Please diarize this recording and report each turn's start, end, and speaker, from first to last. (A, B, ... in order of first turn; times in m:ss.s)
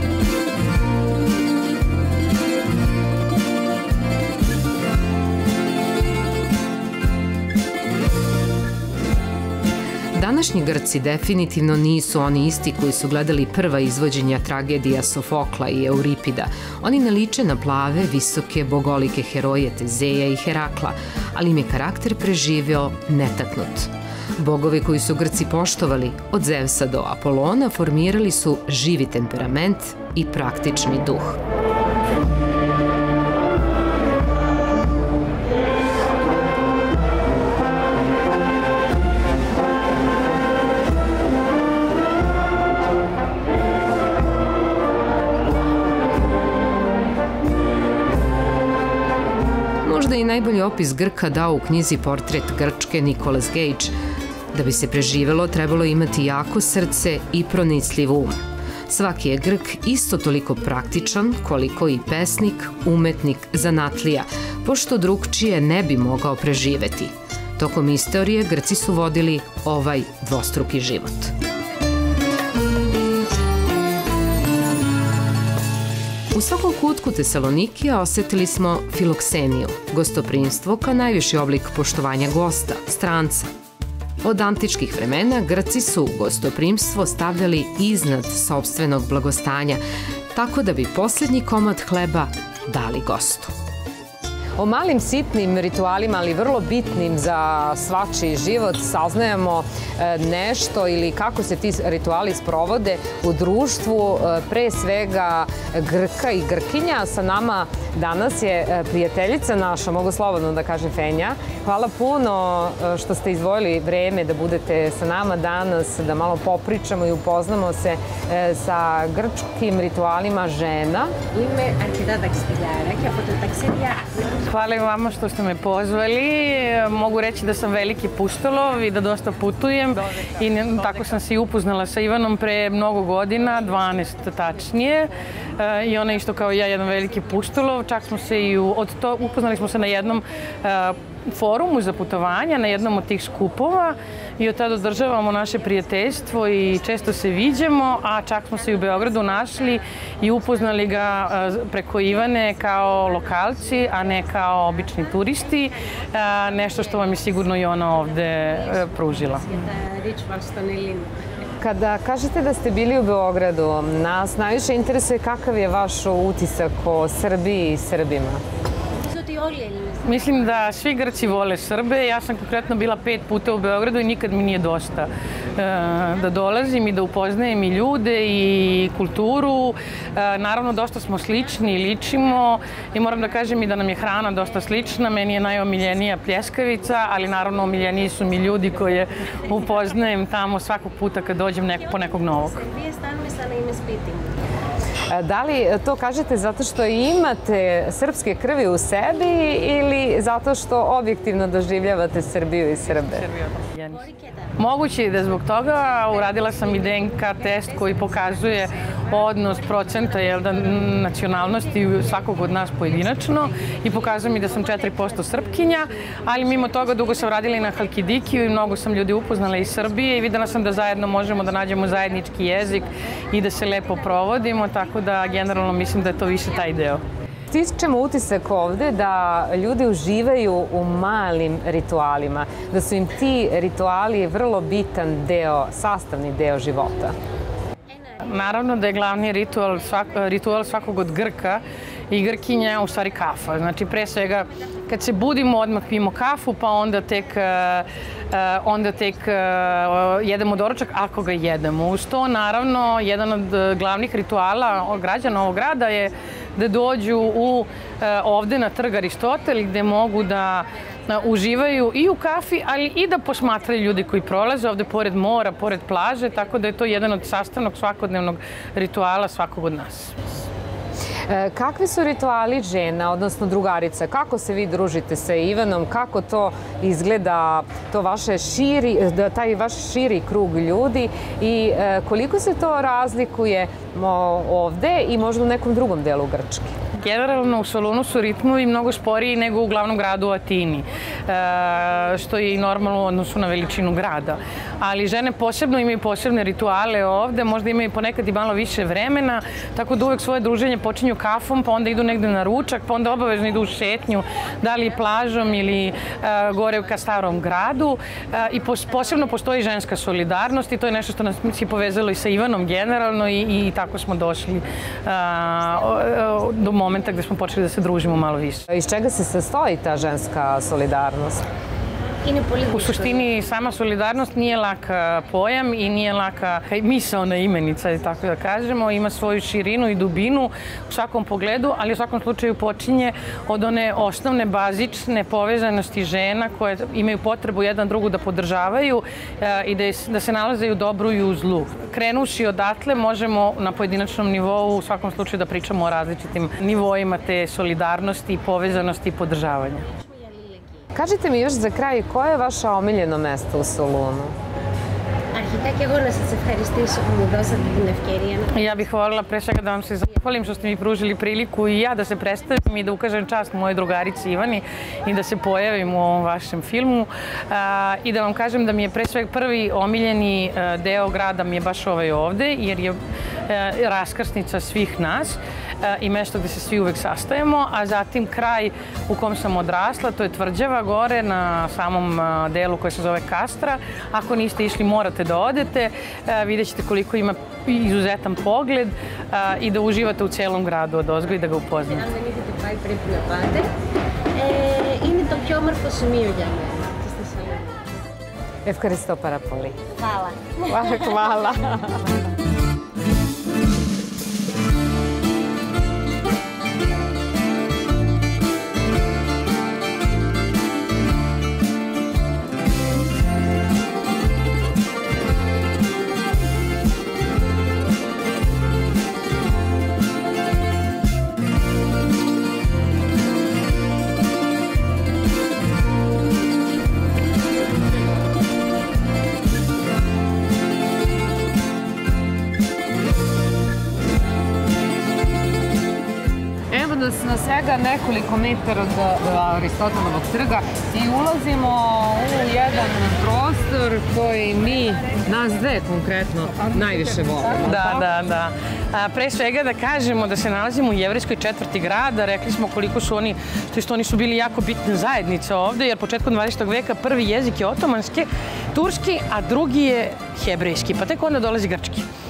0:10.2-0:31.4 A
0:49.8-0:53.9 A
0:54.5-1:11.3 A
1:16.3-1:23.5 A
1:24.2-1:29.8 A
1:30.3-1:33.5 A
1:34.6-2:01.1 B
2:01.3-2:04.9 C
2:04.4-2:39.4 D
2:13.4-2:20.2 C
2:21.9-2:41.5 C
2:41.6-2:48.4 B
2:49.0-2:51.8 C
2:50.0-3:12.6 D
2:56.0-2:56.3 C
3:00.7-3:14.4 C
3:15.1-3:23.3 B
3:23.1-3:24.1 D
3:23.9-3:47.1 C
3:24.6-3:47.0 D
3:47.5-3:57.2 B
3:57.9-4:11.4 C
3:58.2-4:30.1 D
4:31.3-4:46.8 B
4:47.0-5:18.7 D
4:47.1-4:48.6 C
4:51.3-4:54.4 C
5:08.9-5:09.5 C
5:15.3-5:18.3 C
5:18.7-5:21.5 B
5:22.2-5:25.3 C
5:22.7-5:49.9 D
5:44.5-5:47.5 C
5:48.6-5:50.9 C
5:50.9-5:54.4 B
5:55.3-6:01.5 C
5:58.5-6:13.0 D
6:13.5-6:32.1 D
6:31.8-6:33.7 C
6:34.4-6:37.9 C
6:38.7-6:39.8 B
6:40.0-6:41.2 C
6:40.6-6:42.0 B
7:16.7-7:28.1 B
7:27.6-7:42.1 D